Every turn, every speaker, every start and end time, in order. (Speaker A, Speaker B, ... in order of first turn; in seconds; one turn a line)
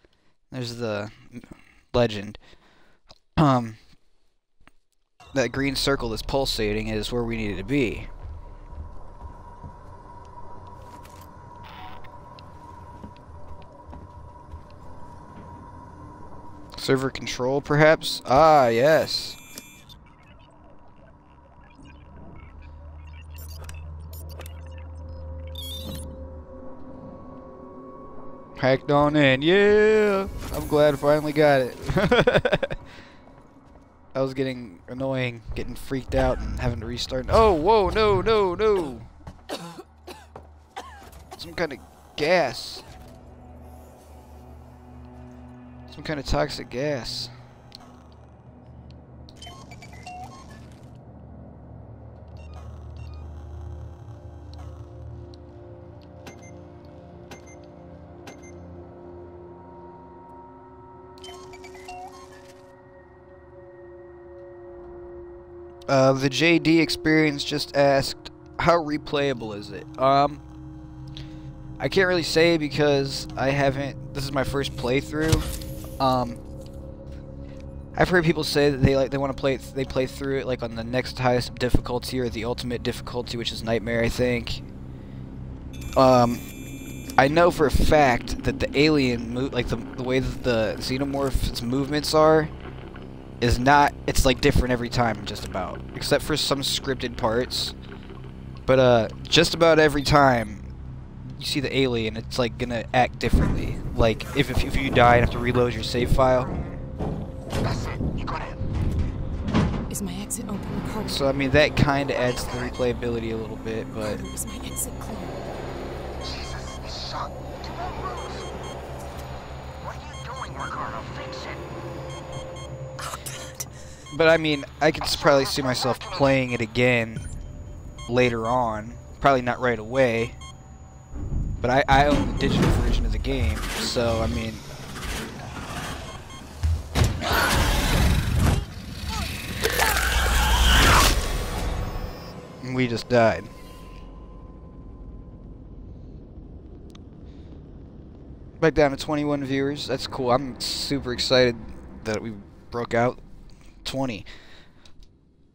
Speaker A: 0.5-2.4
Speaker A: 3.4-3.8
Speaker A: 5.3-8.1
Speaker A: 16.8-19.4
Speaker A: 28.6-32.8
Speaker A: 34.1-39.1
Speaker A: 41.4-42.8
Speaker A: 45.9-47.3
Speaker A: 65.9-70.4
Speaker A: 71.8-75.5
Speaker A: 76.0-76.4
Speaker A: 78.0-84.7
Speaker A: 86.0-86.4
Speaker A: 87.2-92.5
Speaker A: 93.4-97.8
Speaker A: 98.7-100.7
Speaker A: 101.3-106.6
Speaker B: 107.6-108.6
Speaker C: 109.9-111.2
Speaker A: 111.0-114.3
Speaker C: 114.0-115.4
Speaker B: 116.2-118.5
Speaker B: 119.8-121.6
Speaker C: 123.0-123.7
Speaker A: 124.1-127.3
Speaker B: 125.6-126.0
Speaker A: 128.1-130.3
Speaker A: 131.6-134.6
Speaker A: 142.6-143.5
Speaker A: 148.6-153.2
Speaker A: 153.8-154.3